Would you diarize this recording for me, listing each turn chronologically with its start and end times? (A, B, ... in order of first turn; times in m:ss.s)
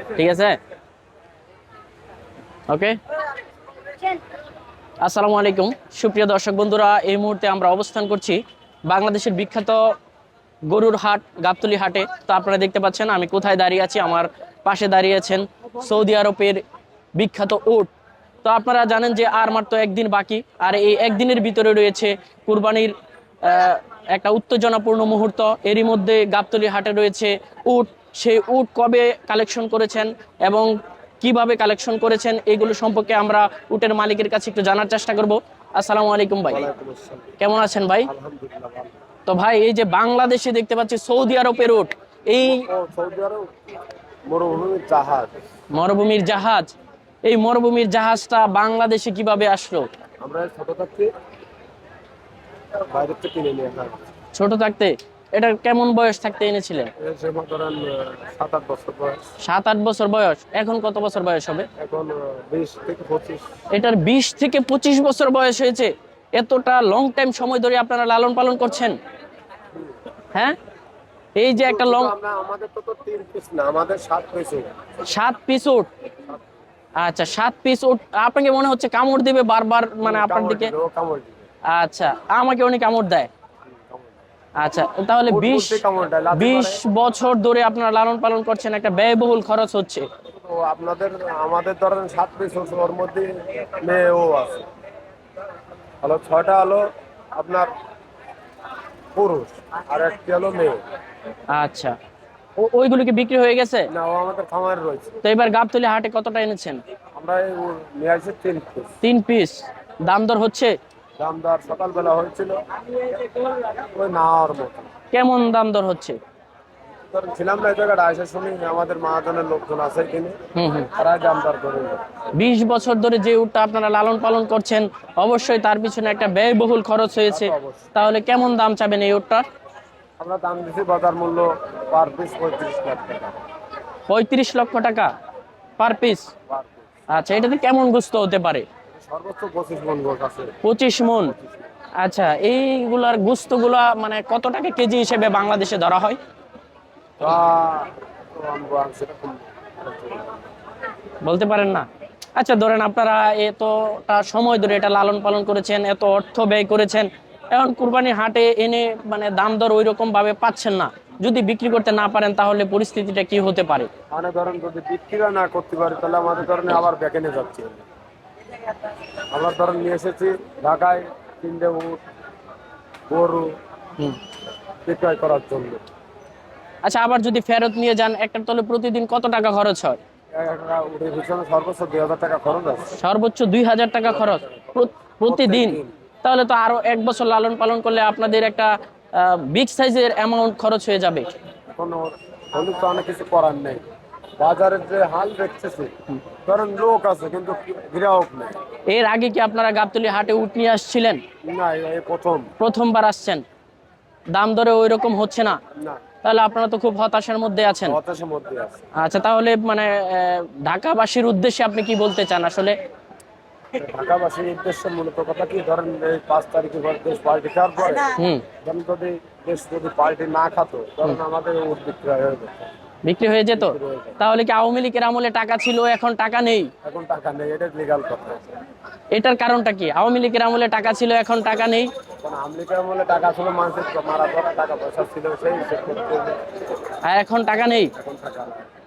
0:00.2-0:00.6 A
0:02.7-0:03.0 A
0:05.0-0:09.9 A
0:10.7-0:16.6 A
0:17.2-0:17.9 A
0:18.4-0:36.6 A
0:36.5-0:37.4 B
0:37.4-0:38.1 A
0:38.0-0:39.0 B
0:39.3-0:42.7 A
0:42.4-0:43.5 B
0:44.3-0:45.3 B
0:45.7-0:46.7 A
0:47.2-0:49.9 A
0:50.2-0:51.1 B
0:52.9-0:54.0 B
0:54.4-0:56.9 A
0:57.0-0:59.2 B
0:59.4-1:01.7 A
1:01.8-1:03.4 B
1:03.7-1:09.0 A
1:11.4-1:12.1 A
1:11.6-1:14.7 B
1:15.0-1:15.9 A
1:17.0-1:20.7 A
1:20.0-1:21.5 B
1:21.7-1:23.3 A
1:23.7-1:24.2 B
1:24.6-1:25.8 A
1:25.3-1:26.8 B
1:26.4-1:30.1 A
1:30.4-1:34.7 B
1:36.0-1:37.7 B
1:39.2-1:40.8 B
1:41.5-1:42.0 A
1:42.6-1:43.9 A
1:43.9-1:45.2 B
1:45.2-1:46.8 A
1:47.2-1:49.0 B
1:49.0-1:50.8 A
1:51.2-1:54.9 B
1:55.1-1:56.2 A
1:57.1-2:00.4 B
2:00.6-2:00.9 A
2:01.0-2:02.0 B
2:02.4-2:09.4 A
2:07.3-2:07.9 B
2:10.2-2:13.4 B
2:14.1-2:15.1 A
2:15.8-2:16.3 A
2:16.5-2:16.9 B
2:17.1-2:18.7 A
2:18.9-2:20.6 B
2:20.6-2:21.3 A
2:21.3-2:21.7 B
2:22.0-2:26.2 A
2:27.2-2:30.4 B
2:31.2-2:43.9 A
2:44.1-2:47.8 B
2:49.3-2:52.0 B
2:53.1-2:53.5 B
2:54.8-2:55.8 B
2:56.8-3:00.0 A
3:00.3-3:03.0 B
3:03.0-3:11.3 A
3:04.1-3:05.9 B
3:11.8-3:13.8 B
3:14.4-3:18.6 B
3:18.9-3:21.2 A
3:21.5-3:22.5 B
3:22.6-3:23.4 A
3:24.3-3:25.6 A
3:26.2-3:28.0 A
3:27.8-3:28.9 B
3:29.0-3:32.8 A
3:33.8-3:42.7 B
3:38.2-3:38.4 A
3:43.1-3:46.7 A
3:43.5-3:44.2 B
3:46.8-3:48.4 B
3:49.1-3:51.9 A
3:52.2-3:56.4 B
3:57.0-3:57.9 A
3:58.0-3:58.7 B